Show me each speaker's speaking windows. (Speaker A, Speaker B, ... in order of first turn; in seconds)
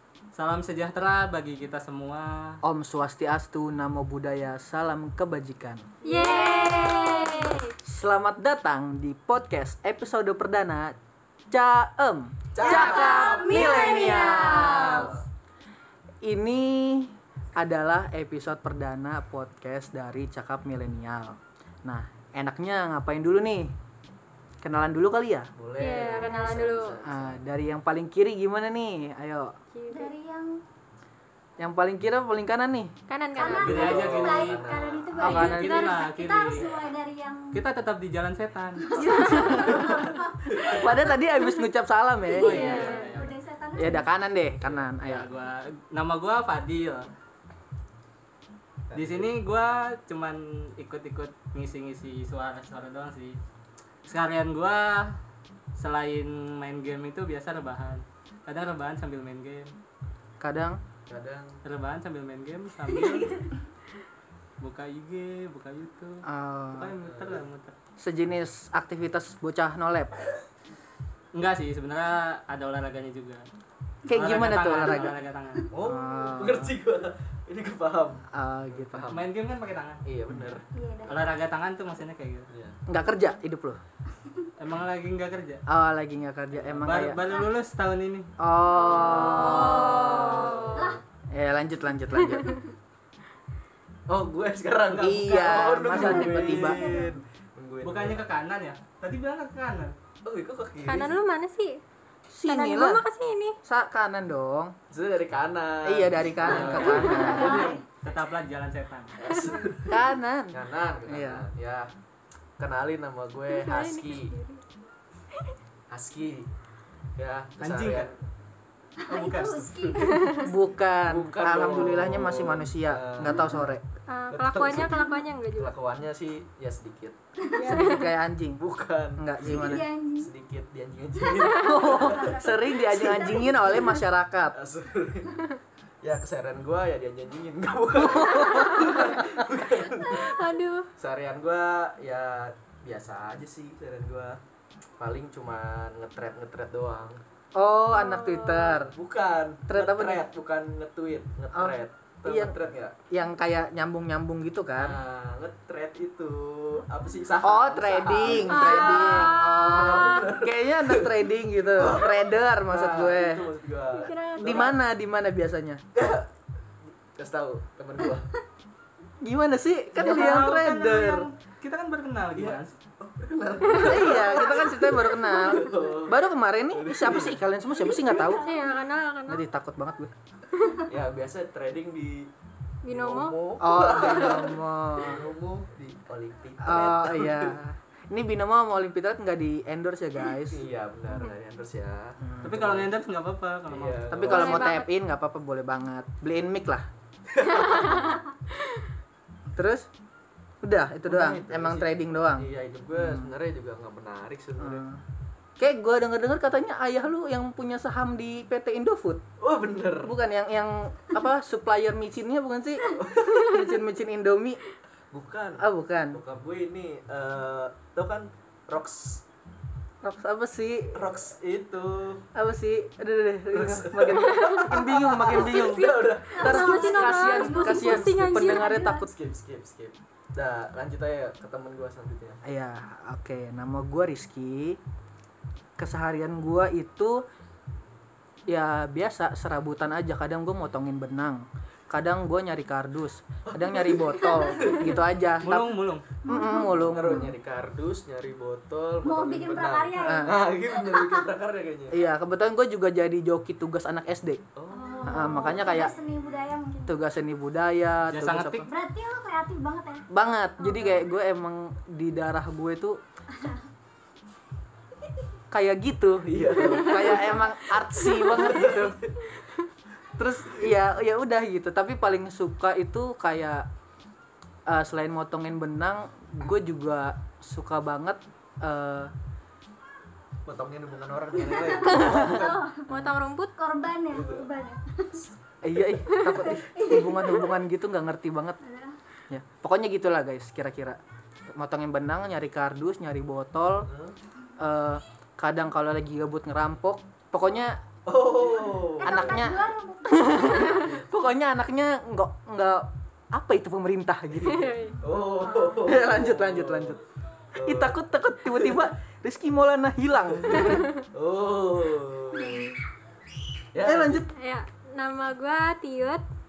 Speaker A: 0.3-2.6, 33.4-34.7, 35.2-36.6, 37.5-39.0, 42.4-43.4, 44.6-47.1, 48.9-53.4, 54.1-55.1, 55.8-59.7, 61.6-63.3, 64.6-66.2, 66.7-67.7, 71.3-73.4, 74.1-75.7, 79.1-80.0, 81.1-82.5, 84.6-85.6, 86.7-88.3, 89.7-90.8, 97.8-100.0, 106.4-109.2, 117.6-118.1, 119.1-119.7, 170.0-172.8, 192.4-194.1, 245.4-246.0, 258.1-258.7
Speaker B: 2.6-5.8, 7.8-10.9, 11.5-15.2, 16.2-23.7, 24.6-25.5, 27.0-29.5, 31.6-32.9, 35.2-35.8, 39.0-40.0, 40.6-42.9, 43.8-45.3, 60.4-60.8, 66.2-67.0, 68.0-70.2, 74.1-75.2, 75.8-76.7, 78.3-79.0, 82.9-83.8, 85.7-87.2, 88.4-90.4, 91.3-92.6, 94.9-96.9, 102.3-103.0, 103.6-104.7, 105.8-107.6, 109.9-111.5, 120.4-123.8, 127.6-128.6, 129.2-129.8, 131.6-134.6, 147.6-148.9, 149.7-150.2, 151.5-152.6, 153.1-155.0, 157.4-163.5, 164.4-165.8, 169.2-171.3, 173.8-178.5, 179.3-180.1, 183.6-185.2, 186.6-190.7, 192.2-192.5, 194.1-196.8, 199.5-199.9, 200.6-203.3, 204.6-205.0, 205.6-209.2, 210.0-214.6, 215.6-216.2, 220.0-221.0, 222.3-229.1, 232.4-234.8, 235.8-237.2, 238.5-247.3, 250.0-250.3, 251.9-254.4, 255.0-255.9, 256.9-258.7, 260.1-263.0, 265.5-269.0, 270.2-273.7, 274.7-279.1, 281.9-283.1, 285.6-288.6, 289.3-293.9, 294.6-297.8, 299.0-304.7, 305.8-307.0, 307.6-310.8, 313.8-314.3
Speaker C: 6.0-7.5, 12.6-15.1, 26.0-26.6, 29.9-30.5, 33.4-37.6, 38.8-40.7, 42.3-44.1, 62.9-63.5, 80.7-81.4, 87.2-87.5, 88.8-91.0, 95.9-97.2, 106.8-107.8, 119.0-120.6, 124.9-125.3, 127.4-127.8, 129.4-130.3, 131.1-133.9, 177.7-178.8, 226.3-229.1, 244.2-244.8, 246.2-247.3, 249.0-251.2, 254.7-256.9, 258.7-260.0, 260.6-261.0, 263.3-263.6, 266.9-267.3, 281.3-282.9, 283.6-285.3, 286.4-287.5, 288.6-289.0, 299.0-300.9, 304.9-305.9
Speaker D: 6.0-7.7, 13.1-14.7, 25.8-27.0, 29.7-30.1, 33.1-34.0, 35.6-36.1, 39.0-40.1, 42.5-43.1, 89.2-90.6, 100.8-101.8, 102.4-103.5, 107.1-107.6, 113.5-114.6, 120.1-120.4, 124.1-125.7, 127.6-128.1, 138.5-138.9, 140.1-140.9, 147.9-148.8, 158.4-160.3, 164.0-164.7, 173.7-174.1, 178.4-179.4, 182.8-183.3, 194.2-194.9, 197.6-198.2, 225.3-228.6, 282.9-283.5, 304.4-304.9, 314.3-316.2
Speaker E: 12.5-15.2, 25.6-27.4, 33.5-35.1, 39.8-40.9, 42.4-43.1, 48.9-49.3, 61.1-61.6, 67.0-67.5, 74.8-75.1, 75.7-79.3, 80.0-80.7, 82.5-82.8, 86.5-86.8, 88.9-90.9, 94.1-98.2, 100.2-101.2, 104.9-107.7, 109.2-111.9, 112.6-114.3, 115.9-116.5, 117.2-118.1, 121.0-123.7, 124.3-125.0, 125.5-127.2, 128.6-133.3, 134.5-135.4, 136.0-140.3, 141.0-144.4, 145.0-147.2, 148.9-153.0, 154.8-161.2, 161.7-164.8, 165.9-166.3, 166.9-168.3, 172.3-176.2, 176.7-177.4, 180.9-182.3, 182.9-187.6, 190.5-192.9, 193.7-194.6, 197.3-198.1, 201.0-204.8, 209.4-210.1, 213.0-213.3, 215.1-219.2, 220.9-222.2, 223.5-226.9, 228.6-232.4, 243.5-244.9, 246.7-252.0, 254.6-255.9, 266.2-267.4, 268.3-269.2, 280.4-282.6, 284.1-284.5, 293.9-294.1, 298.1-299.5, 300.7-301.0, 304.4-307.0, 307.6-307.9, 308.5-308.8, 310.5-312.7, 313.7-314.2